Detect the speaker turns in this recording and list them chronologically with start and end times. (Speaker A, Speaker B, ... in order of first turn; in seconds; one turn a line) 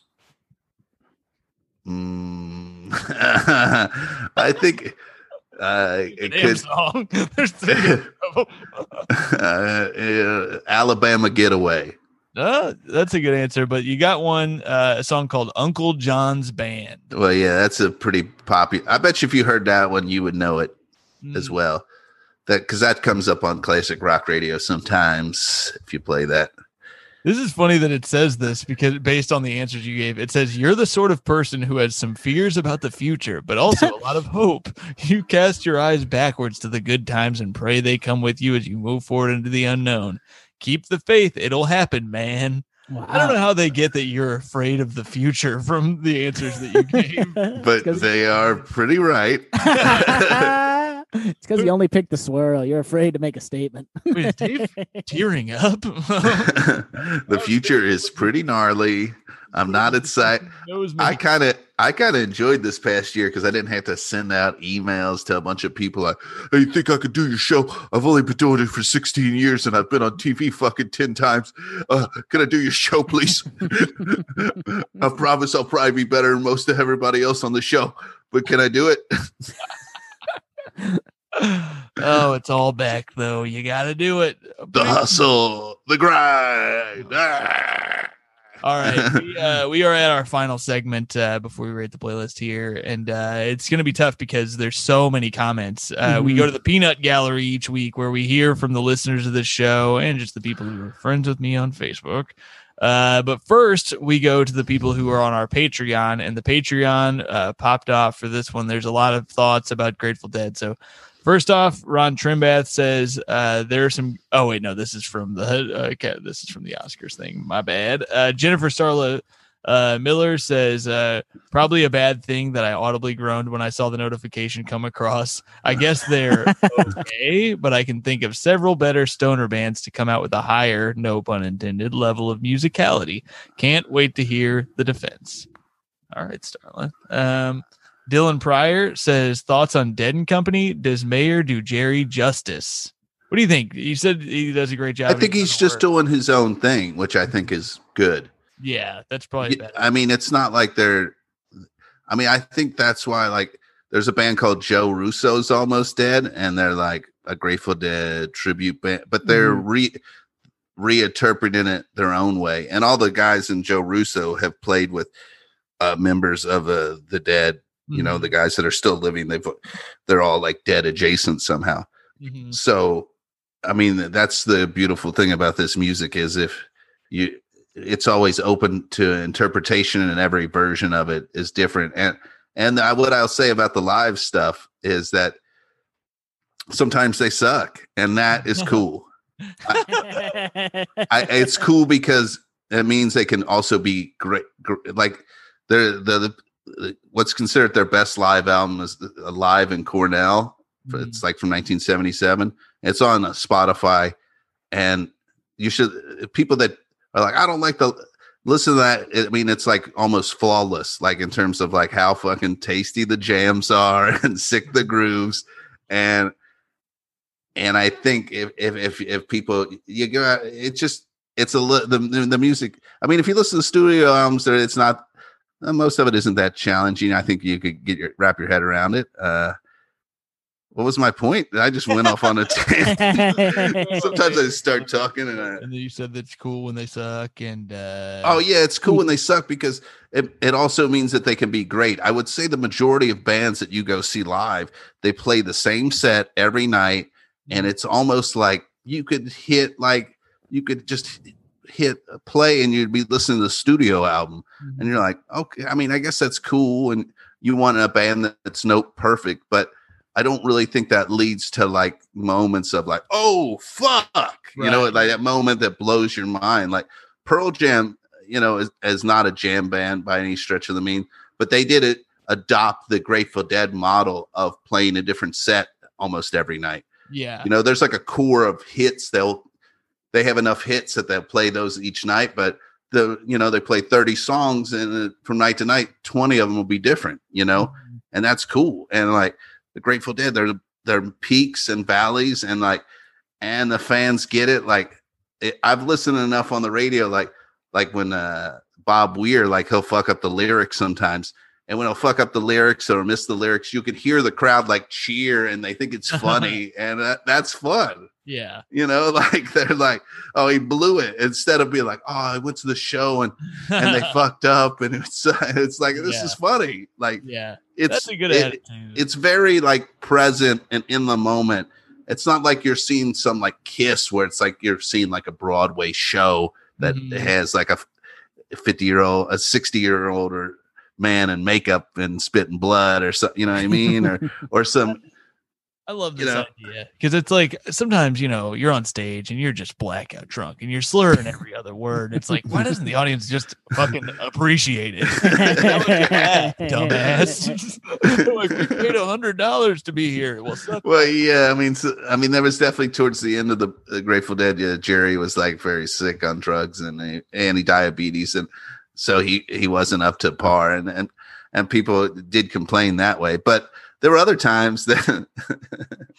Speaker A: 1.9-5.0
Speaker A: 5.6-6.6
Speaker B: 6.1-9.1
Speaker A: 9.1-12.0
Speaker B: 12.3-17.1
Speaker A: 17.1-20.8
Speaker B: 21.2-21.6
Speaker A: 21.3-21.9
Speaker A: 22.5-26.5
Speaker B: 27.2-47.5
Speaker C: 42.9-43.4
Speaker C: 46.7-48.1
Speaker A: 47.5-50.5
Speaker C: 49.8-55.0
Speaker B: 54.1-56.6
Speaker A: 56.4-60.5
Speaker B: 57.3-58.2
Speaker B: 59.7-61.2
Speaker A: 61.0-79.3
Speaker B: 81.3-85.2
Speaker A: 84.7-88.1
Speaker B: 88.6-135.5
Speaker A: 88.8-89.2
Speaker C: 96.1-96.5
Speaker C: 126.3-126.9
Speaker B: 136.1-145.8
Speaker A: 145.1-148.3
Speaker B: 148.6-149.8
Speaker A: 149.4-151.2
Speaker A: 152.1-160.0
Speaker B: 159.3-159.6
Speaker A: 160.8-165.1
Speaker A: 165.8-171.9
Speaker B: 167.9-168.3
Speaker B: 172.2-172.6
Speaker A: 172.5-173.1
Speaker A: 173.7-185.4
Speaker A: 186.7-189.1
Speaker B: 188.6-188.8
Speaker B: 189.5-190.3
Speaker A: 189.7-190.0
Speaker C: 190.1-191.1
Speaker A: 191.1-204.2
Speaker B: 200.9-201.2
Speaker A: 204.7-216.3
Speaker A: 217.6-225.1
Speaker A: 225.6-229.6
Speaker A: 230.7-235.6
Speaker C: 232.9-233.8
Speaker B: 233.1-238.4
Speaker A: 238.2-276.9
Speaker B: 254.6-255.0
Speaker B: 264.6-265.2
Speaker B: 277.1-277.5
Speaker A: 277.4-279.5
Speaker A: 280.1-292.9
Speaker B: 287.6-288.0
Speaker A: 293.4-308.1
Speaker B: 306.2-306.6
Speaker B: 308.3-308.6
Speaker A: 308.7-317.2
Speaker B: 313.7-314.1
Speaker B: 315.9-316.4
Speaker B: 317.2-319.0
Speaker A: 317.8-327.9
Speaker B: 326.8-327.3
Speaker A: 328.5-335.1
Speaker B: 335.9-351.1
Speaker A: 336.2-336.5
Speaker A: 345.2-346.1
Speaker C: 345.2-347.5
Speaker A: 350.8-366.0